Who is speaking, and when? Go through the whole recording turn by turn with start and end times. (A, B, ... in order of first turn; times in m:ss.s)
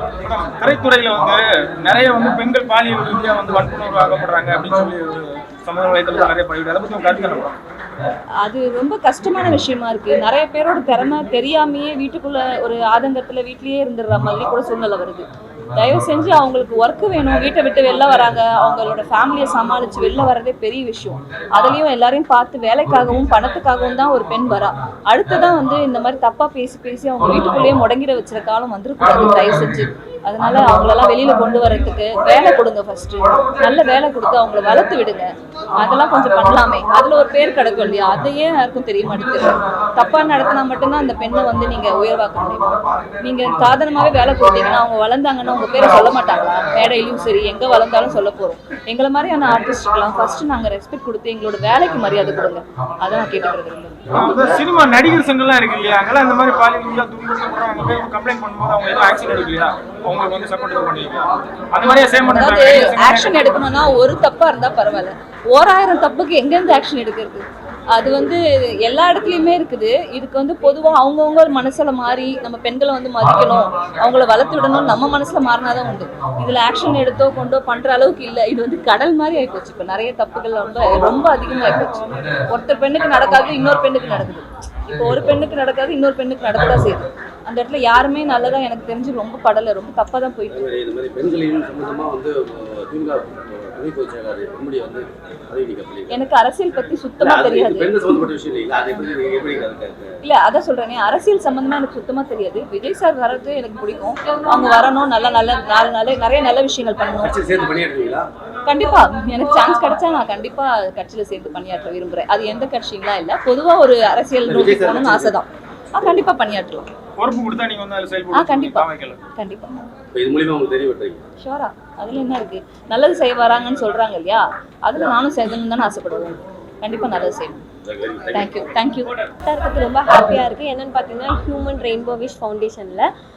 0:00.2-0:07.5 A
0:08.4-0:54.6 B
0:54.1-1:03.7 A
1:02.2-1:30.6 B
1:30.5-1:36.2 C
1:36.1-1:38.1 B
1:37.2-1:40.1 C
1:40.2-1:47.3 B
1:47.2-1:48.3 C
1:48.6-1:56.8 B
1:54.5-1:55.3 C
1:57.2-1:59.2 A
1:58.3-1:59.8 B
2:00.1-2:01.2 C
2:01.4-2:07.6 B
2:07.8-2:08.2 C
2:08.3-2:09.1 B
2:09.4-2:13.0 D